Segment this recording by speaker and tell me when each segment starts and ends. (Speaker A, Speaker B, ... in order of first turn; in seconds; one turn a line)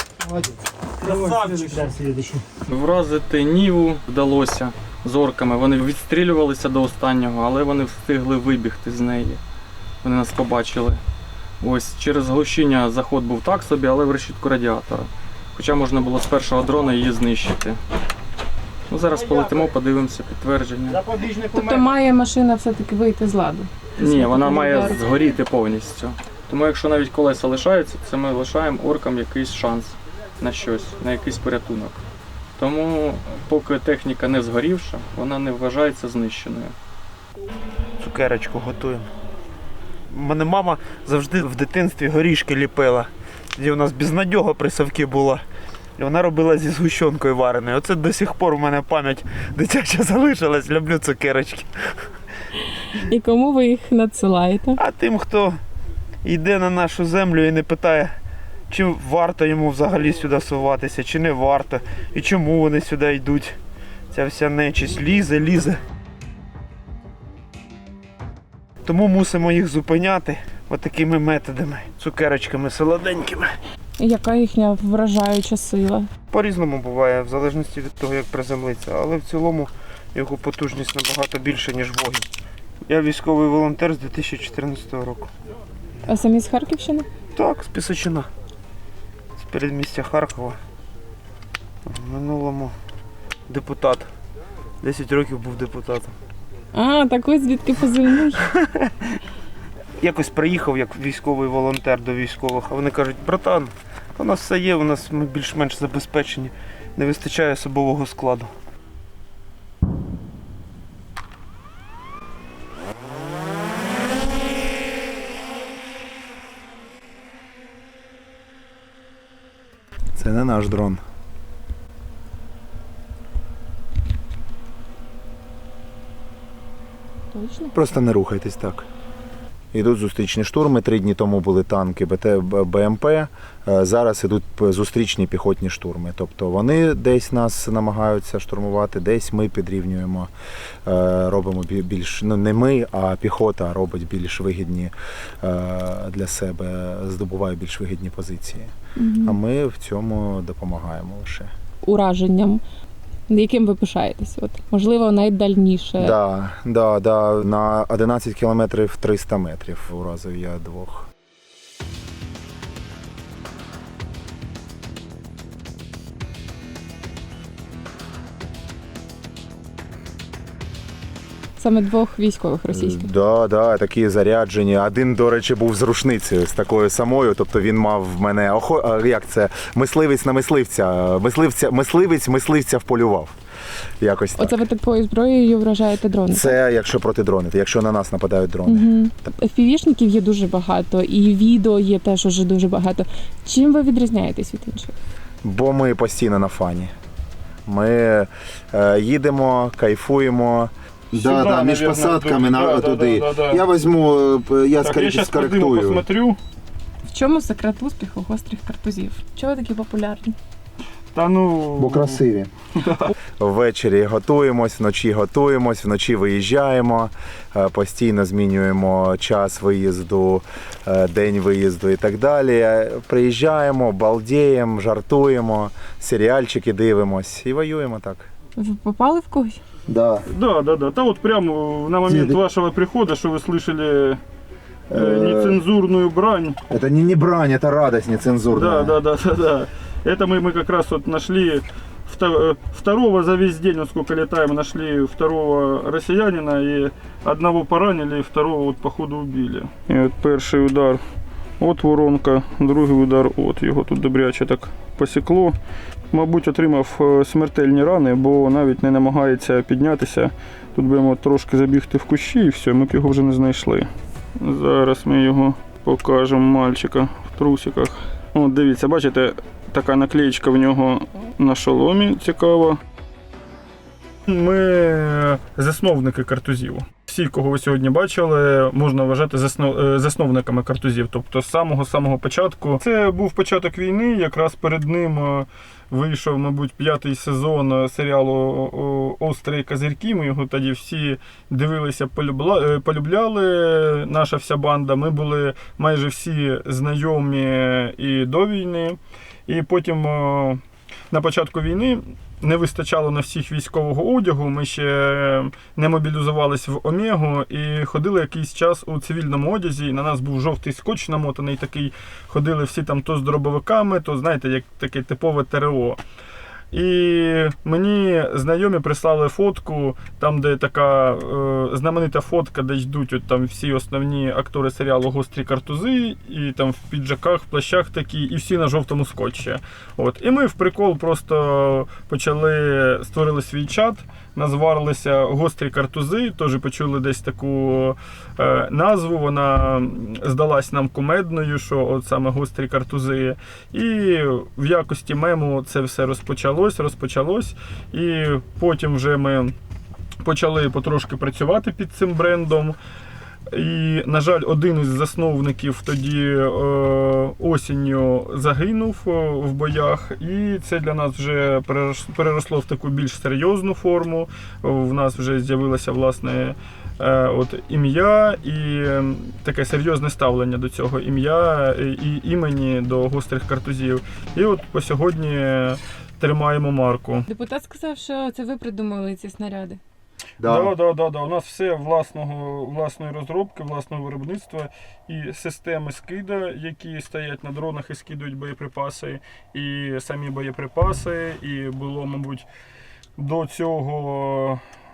Speaker A: 0.2-2.4
Speaker B: 1.1-1.8
Speaker B: 2.7-9.4
Speaker B: 10.0-11.0
Speaker B: 11.6-17.8
Speaker B: 18.9-21.0
Speaker A: 19.1-19.7
Speaker A: 20.9-21.8
Speaker C: 21.5-25.0
Speaker B: 24.0-32.0
Speaker B: 32.6-36.7
Speaker D: 38.0-39.1
Speaker D: 40.1-45.4
Speaker D: 46.0-51.7
Speaker C: 52.6-54.8
Speaker D: 54.8-55.5
Speaker D: 56.2-58.1
Speaker D: 58.7-63.5
Speaker D: 64.1-65.8
Speaker D: 68.9-73.5
Speaker C: 74.0-76.1
Speaker D: 76.3-82.3
Speaker D: 82.8-85.3
Speaker C: 86.1-87.1
Speaker D: 87.3-88.3
Speaker D: 89.4-90.5
Speaker D: 91.9-92.7
Speaker D: 93.5-94.1
Speaker D: 94.8-96.1
Speaker C: 96.7-98.4
Speaker D: 100.0-108.5
Speaker E: 120.2-121.0
Speaker C: 127.3-127.7
Speaker E: 127.7-128.8
Speaker E: 129.7-140.3
Speaker E: 140.8-148.7
Speaker C: 149.0-149.3
Speaker E: 149.2-151.5
Speaker C: 151.8-152.6
Speaker C: 153.3-156.1
Speaker E: 156.0-161.1
Speaker C: 171.6-173.1
Speaker E: 172.7-183.3
Speaker E: 184.0-184.6
Speaker C: 184.4-186.6
Speaker E: 186.3-189.0
Speaker C: 188.7-194.9
Speaker E: 195.4-196.9
Speaker E: 197.7-206.0
Speaker F: 201.1-203.6
Speaker F: 204.8-206.4
Speaker C: 207.0-210.3
Speaker F: 211.1-212.2
Speaker E: 211.8-212.5
Speaker F: 212.8-213.1
Speaker E: 213.4-228.3
Speaker C: 228.6-229.6
Speaker E: 229.9-230.2
Speaker F: 230.3-234.2
Speaker E: 232.1-232.4
Speaker E: 234.9-235.6
Speaker F: 234.9-236.6
Speaker E: 236.7-239.0
Speaker F: 238.5-251.0
Speaker F: 251.6-255.6
Speaker F: 256.1-263.9
Speaker F: 264.4-272.8
Speaker F: 274.3-300.6
Speaker F: 301.1-316.0
Speaker F: 316.7-349.5
Speaker F: 350.2-352.8
Speaker F: 353.5-377.3
Speaker C: 377.3-379.8
Speaker E: 380.4-380.7
Speaker F: 380.4-392.5
Speaker F: 393.2-394.6